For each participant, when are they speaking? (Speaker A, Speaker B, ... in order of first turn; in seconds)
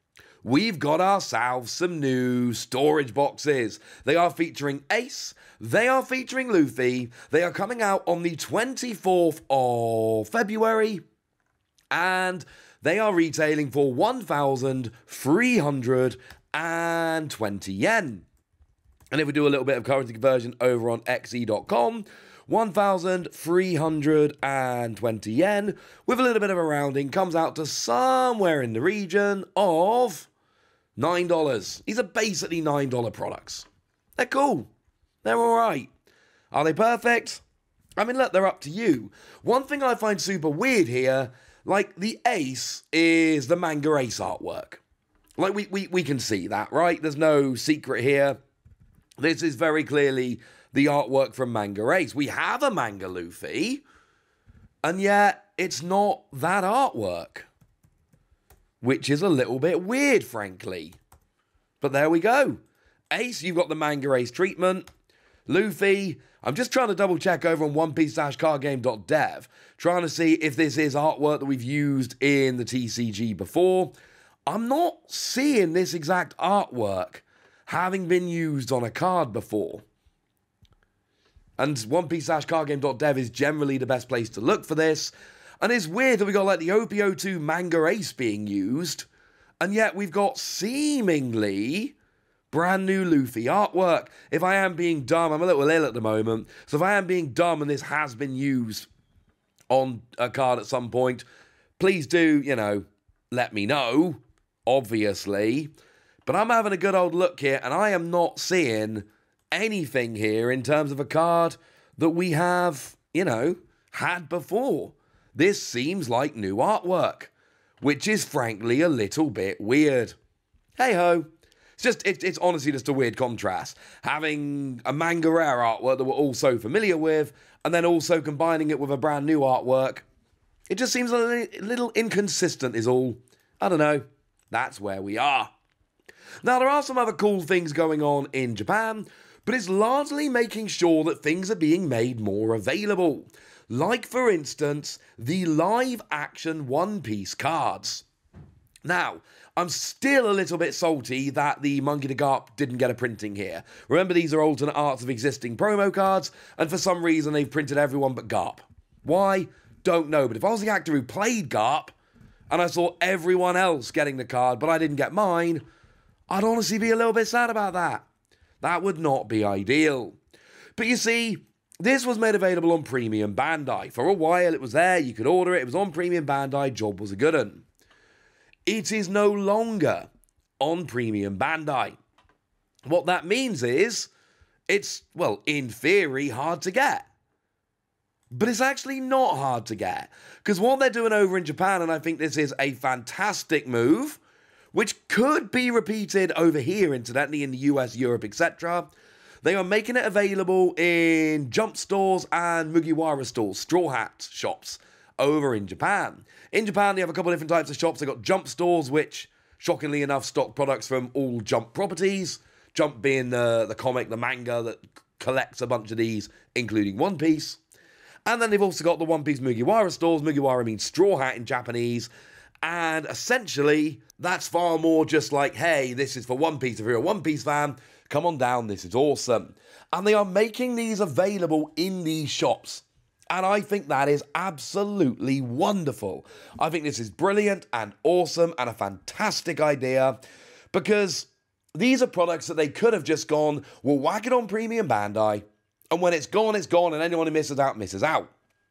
Speaker A: 0.4-11.0, 11.9-18.2, 19.1-30.3, 31.0-34.7, 35.2-35.9, 36.5-37.4, 38.0-44.8, 45.4-48.4, 49.2-53.8, 54.8-57.5, 58.8-61.0, 61.8-62.6, 63.1-64.9, 65.5-73.9, 74.5-79.8, 81.6-89.1, 89.6-92.0, 92.5-98.9, 99.7-101.2, 101.8-105.7, 106.3-120.2, 120.8-130.1, 130.7-135.5, 136.4-148.1, 148.8-161.9, 162.5-165.6, 166.3-168.1, 168.6-170.2, 170.8-177.7, 178.7-180.1, 180.6-182.0, 182.9-184.1, 184.7-187.1, 188.3-194.2, 194.7-198.9, 199.4-217.6, 218.3-222.1, 222.6-240.2, 240.7-248.3